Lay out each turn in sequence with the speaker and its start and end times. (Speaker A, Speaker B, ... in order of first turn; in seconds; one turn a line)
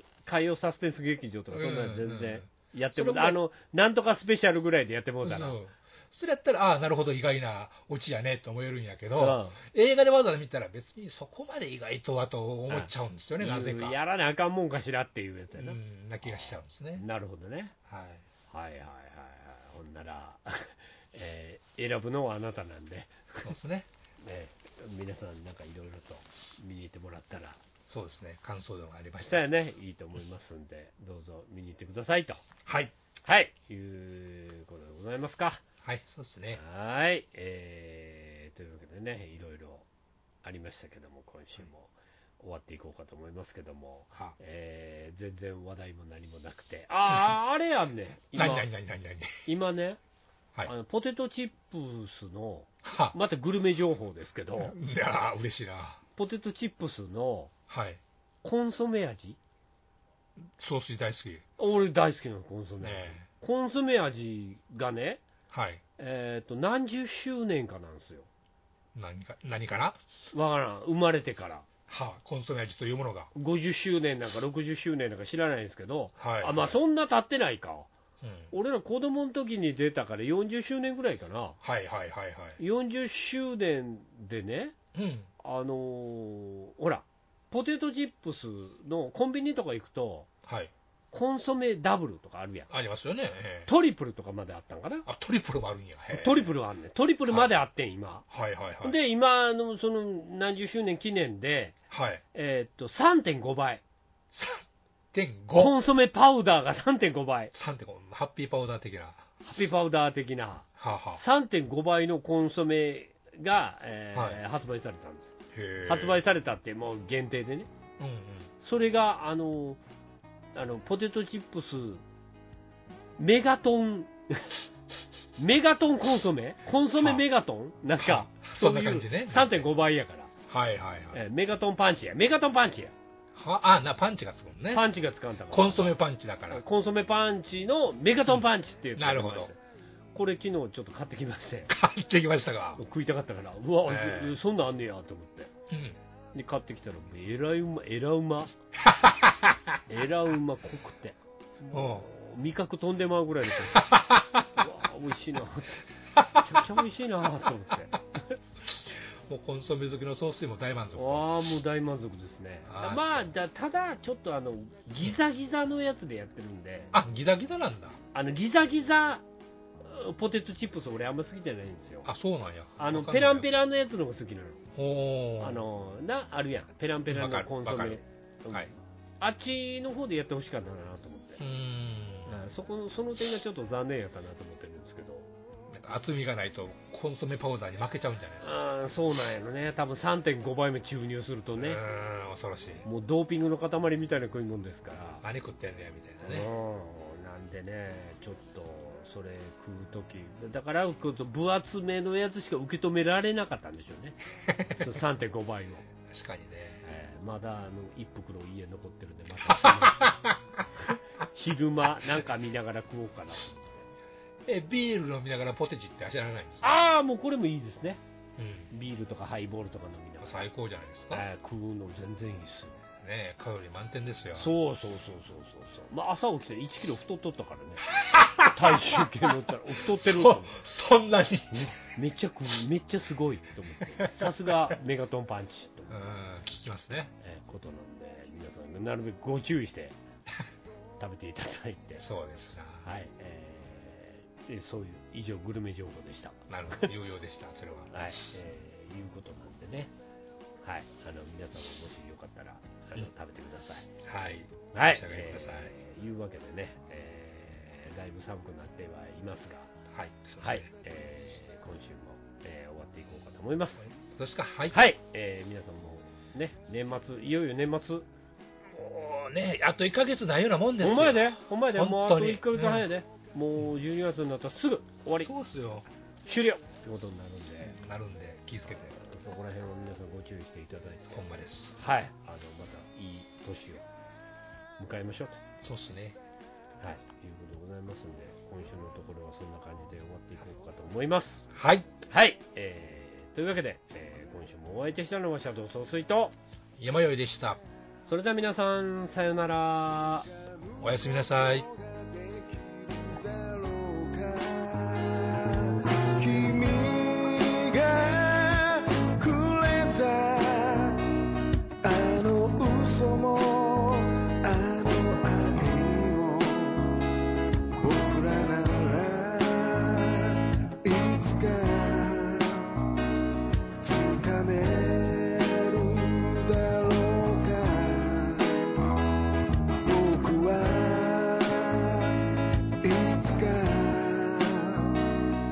Speaker A: 0.2-5.5
Speaker B: 1.5-3.4
Speaker B: 5.2-14.0
Speaker A: 9.2-9.6
Speaker A: 13.4-17.7
Speaker B: 15.5-17.0
Speaker B: 17.9-18.2
Speaker A: 18.5-23.5
Speaker B: 23.4-23.9
Speaker A: 24.2-27.6
Speaker B: 27.9-29.4
Speaker A: 29.2-32.4
Speaker B: 32.6-32.9
Speaker A: 33.2-35.6
Speaker B: 35.8-36.6
Speaker A: 36.5-39.9
Speaker A: 40.4-48.7
Speaker B: 47.0-47.4
Speaker B: 48.3-49.4
Speaker A: 49.5-50.0
Speaker A: 50.6-54.8
Speaker B: 52.8-53.2
Speaker B: 54.5-56.0
Speaker A: 56.1-57.5
Speaker B: 57.7-58.0
Speaker A: 58.4-59.4
Speaker B: 60.6-61.4
Speaker A: 61.6-65.2
Speaker B: 62.8-63.3
Speaker B: 65.5-65.8
Speaker A: 66.0-68.3
Speaker B: 68.9-70.0
Speaker A: 70.3-71.7
Speaker B: 71.9-73.3
Speaker A: 73.3-77.9
Speaker B: 76.2-76.7
Speaker B: 78.2-78.5
Speaker A: 78.5-81.6
Speaker B: 81.6-82.6
Speaker A: 82.6-84.7
Speaker B: 84.9-85.3
Speaker A: 85.4-90.3
Speaker B: 90.5-90.7
Speaker A: 91.1-92.7
Speaker B: 92.7-93.7
Speaker A: 93.7-95.0
Speaker B: 95.0-96.5
Speaker A: 96.1-98.2
Speaker B: 98.3-99.0
Speaker A: 98.8-101.7
Speaker B: 101.9-102.2
Speaker A: 102.3-103.8
Speaker B: 104.3-105.8
Speaker A: 105.5-107.5
Speaker B: 107.5-109.2
Speaker A: 109.4-115.3
Speaker B: 110.8-111.2
Speaker B: 114.1-114.4
Speaker B: 115.5-116.2
Speaker A: 115.8-117.7
Speaker B: 118.0-118.5
Speaker A: 118.6-119.8
Speaker A: 120.5-122.0
Speaker A: 123.2-124.6
Speaker A: 125.4-130.3
Speaker B: 128.0-129.7
Speaker B: 130.5-131.2
Speaker A: 131.1-132.9
Speaker B: 133.3-134.9
Speaker A: 134.7-139.6
Speaker B: 135.5-136.6
Speaker B: 138.3-139.5
Speaker A: 140.1-141.7
Speaker B: 141.7-142.8
Speaker A: 142.8-145.5
Speaker B: 143.8-144.4
Speaker B: 145.7-146.0
Speaker A: 146.3-148.5
Speaker B: 148.8-149.8
Speaker A: 149.9-154.0
Speaker B: 151.7-152.1
Speaker B: 153.7-154.4
Speaker A: 154.5-158.3
Speaker B: 156.2-156.6
Speaker B: 158.7-161.3
Speaker A: 160.9-166.9
Speaker B: 162.7-163.3
Speaker B: 166.9-168.0
Speaker A: 168.1-169.2
Speaker A: 169.8-172.1
Speaker B: 172.0-173.5
Speaker A: 172.8-174.6
Speaker B: 174.7-175.6
Speaker A: 175.4-181.4
Speaker B: 177.1-178.7
Speaker B: 181.4-182.3
Speaker A: 182.2-185.3
Speaker B: 185.7-188.5
Speaker A: 188.4-191.8
Speaker B: 191.6-192.8
Speaker A: 192.8-195.2
Speaker B: 195.2-196.5
Speaker A: 196.2-204.2
Speaker B: 204.5-204.8
Speaker A: 204.7-205.9
Speaker B: 206.1-206.8
Speaker A: 206.8-210.2
Speaker B: 209.4-210.6
Speaker A: 210.8-213.8
Speaker B: 214.5-216.7
Speaker A: 216.6-218.0
Speaker B: 218.4-218.7
Speaker A: 218.7-220.4
Speaker B: 220.2-221.2
Speaker A: 221.1-222.8
Speaker B: 222.9-224.5
Speaker A: 224.3-230.6
Speaker B: 227.9-229.1
Speaker B: 229.7-231.7
Speaker A: 231.5-235.9
Speaker B: 233.9-234.7
Speaker B: 235.9-237.1
Speaker A: 237.2-239.9
Speaker A: 241.0-242.1
Speaker B: 242.0-242.9
Speaker A: 242.8-246.9
Speaker B: 246.5-248.2
Speaker A: 247.9-249.9
Speaker A: 250.6-253.9
Speaker B: 254.0-255.7
Speaker A: 254.7-259.7
Speaker B: 259.9-260.7
Speaker A: 260.4-263.9
Speaker B: 263.8-264.9
Speaker A: 264.7-268.1
Speaker B: 268.7-272.9
Speaker A: 270.8-275.3
Speaker B: 275.2-275.9
Speaker A: 276.2-277.8
Speaker B: 277.6-278.9
Speaker A: 278.9-283.8
Speaker B: 281.1-281.8
Speaker A: 284.8-285.4
Speaker B: 285.6-286.1
Speaker A: 286.8-291.5
Speaker B: 291.5-291.9
Speaker A: 292.1-296.4
Speaker B: 296.8-297.6
Speaker A: 298.1-300.3
Speaker B: 300.8-301.7
Speaker C: 301.5-311.1
Speaker C: 311.8-317.0
Speaker C: 317.8-322.7
Speaker C: 323.8-328.8
Speaker C: 329.8-332.1
Speaker C: 332.8-335.0